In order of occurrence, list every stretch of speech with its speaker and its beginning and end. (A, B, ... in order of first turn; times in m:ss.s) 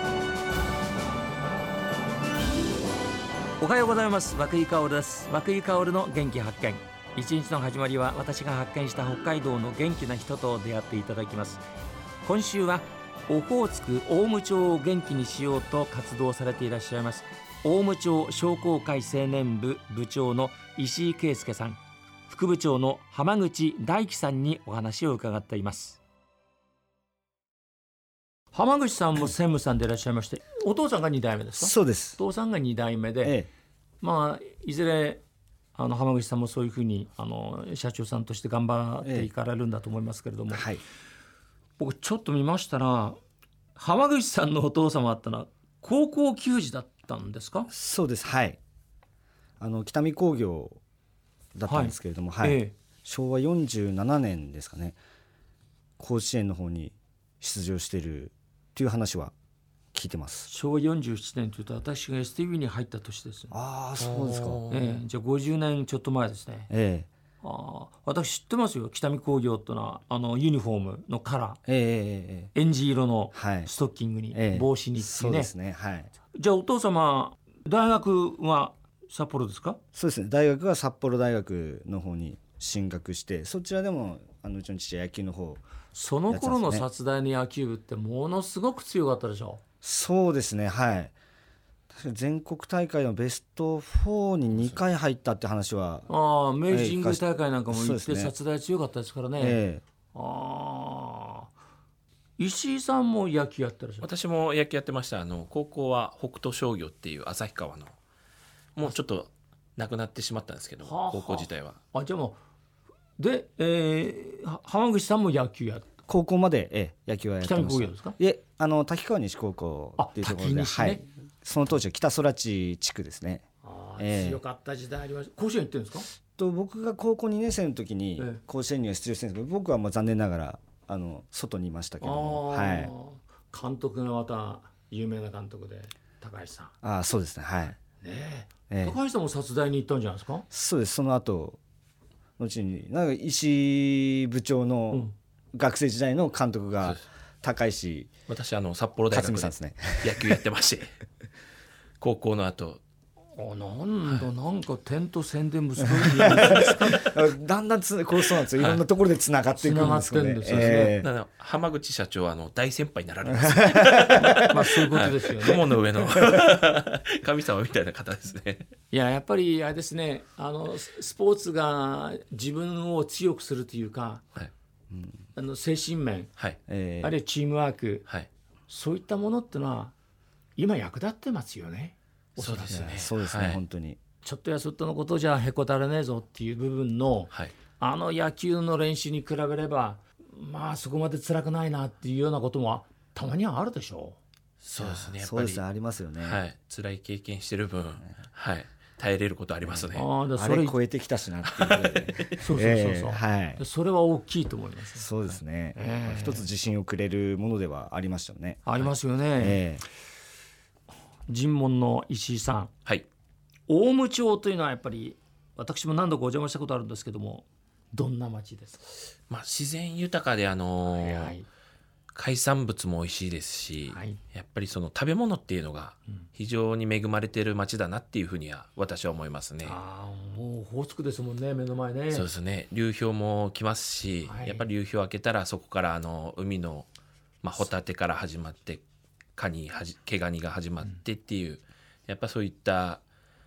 0:03.6-0:11.6 A
0:12.2-0:26.0 A
0:28.5-0:33.4 A
0:31.6-0:32.2 B
0:33.2-0:33.5 B
0:34.0-0:35.2 A
0:35.7-0:40.7 A
0:39.0-0:39.3 B
0:40.5-0:40.8 B
0:41.8-0:43.2 A
0:43.8-0:47.7 A
0:47.7-0:48.6 B
0:49.6-0:50.8 B
0:51.6-0:55.0 B
0:51.7-0:52.8 A
0:56.0-0:59.3 B
0:59.9-1:00.5 B
1:00.5-1:03.5 A
1:03.5-1:04.6 B
1:04.0-1:05.0 C
1:04.7-1:06.7 A
1:06.7-1:07.1 B
1:07.4-1:11.6 A
1:11.7-1:12.5 B
1:12.5-1:15.5 A
1:13.3-1:13.7 B
1:14.3-1:16.1 B
1:16.3-1:19.8 A
1:19.9-1:25.6 B
1:25.9-1:29.6 A
1:26.3-1:26.9 B
1:29.8-1:31.1 B
1:31.9-1:36.1 B
1:36.1-1:39.6 A
1:36.7-1:38.3 B
1:39.4-1:39.8 B
1:40.1-1:41.5 A
1:42.4-1:44.1 A
1:44.0-1:48.0 C
1:48.8-1:51.8 C
1:50.8-1:52.4 A
1:53.2-1:55.9 A
1:56.1-2:03.4 B
1:57.4-1:58.2 A
2:00.0-2:01.0 A
2:03.6-2:06.1 A
2:04.0-2:04.4 B
2:06.4-2:12.9 B
2:12.0-2:16.7 A
2:16.8-2:17.8 B
2:18.0-2:20.5 A
2:18.7-2:19.0 B
2:20.5-2:21.6 B
2:22.4-2:28.1 B
2:28.3-2:30.9 C
2:29.1-2:30.3 B
2:32.0-2:32.8 C
2:33.4-2:37.2 A
2:35.8-2:41.1 B
2:38.3-2:38.8 C
2:39.6-2:41.0 A
2:40.5-2:48.7 C
2:43.2-2:44.6 B
2:44.2-2:45.8 A
2:48.9-2:54.2 A
2:55.4-2:56.3 A
2:56.7-2:57.1 B
2:57.0-2:58.1 A
2:58.7-2:59.9 A
3:00.6-3:03.1 A
3:02.4-3:03.6 C
3:02.7-3:04.0 B
3:04.2-3:14.2 A
3:14.6-3:15.6 C
3:14.8-3:16.4 B
3:16.2-3:20.1 C
3:19.7-3:23.6 B
3:19.9-3:20.8 A
3:21.5-3:22.4 C
3:22.4-3:25.1 A
3:24.9-3:28.7 B
3:25.8-3:26.5 A
3:28.6-3:29.6 A
3:29.4-3:29.8 B
3:31.3-3:32.7 A
3:33.7-3:38.9 A
3:39.3-3:41.4 C
3:40.8-3:41.5 A
3:42.1-3:49.8 C
3:43.9-3:44.2 A
3:49.6-3:52.3 A
3:52.1-3:56.9 C
3:54.2-3:54.7 A
3:57.4-3:58.8 C
3:59.4-4:03.0 C